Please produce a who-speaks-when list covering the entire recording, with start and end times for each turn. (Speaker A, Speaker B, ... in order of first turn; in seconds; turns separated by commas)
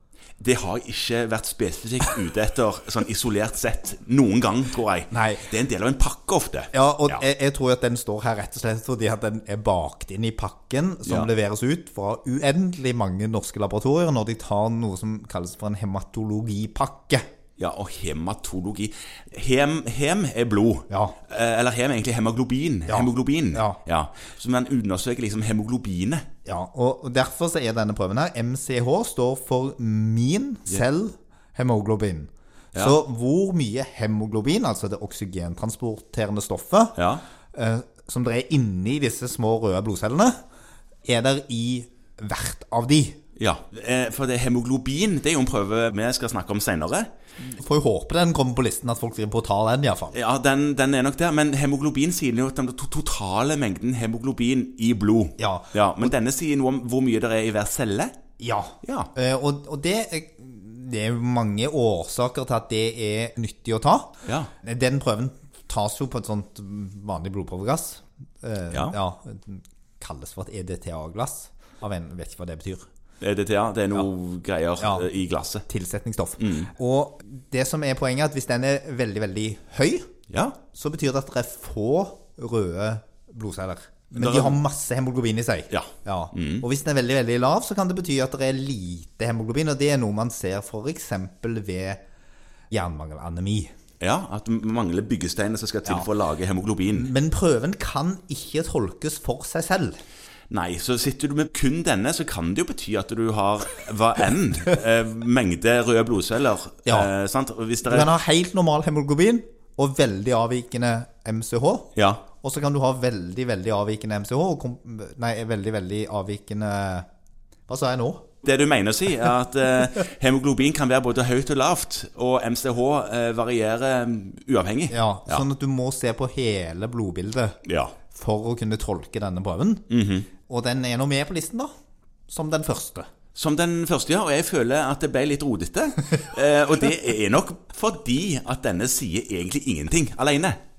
Speaker A: 0.4-7.2, Speaker B: 5.1-5.5, Speaker B: 6.7-17.2, Speaker A: 17.6-26.2, Speaker B: 20.9-21.2, Speaker B: 22.9-23.8, Speaker B: 26.4-37.0, Speaker A: 37.0-37.2, Speaker B: 37.5-40.4, Speaker B: 41.0-43.2, Speaker A: 43.4-47.1, Speaker B: 47.4-50.1, Speaker A: 50.1-58.1, Speaker B: 55.4-56.1, Speaker B: 58.4-72.9, Speaker A: 58.8-59.1, Speaker A: 64.2-64.5, Speaker A: 73.2-75.6, Speaker B: 74.8-75.1, Speaker B: 75.7-80.1, Speaker A: 76.4-76.7, Speaker A: 80.3-80.6, Speaker B: 80.7-92.0, Speaker A: 84.1-84.6, Speaker A: 85.7-86.6, Speaker B: 92.7-93.7, Speaker A: 94.0-97.1, Speaker B: 96.9-100.0, Speaker A: 100.5-108.1, Speaker B: 107.8-111.9, Speaker A: 112.0-112.2, Speaker B: 112.4-117.0, Speaker B: 117.7-118.2, Speaker A: 118.4-125.4, Speaker B: 124.9-127.6, Speaker A: 127.6-127.9, Speaker B: 128.1-129.8, Speaker A: 129.9-130.3, Speaker B: 130.5-131.7, Speaker B: 132.3-133.1, Speaker A: 133.3-140.6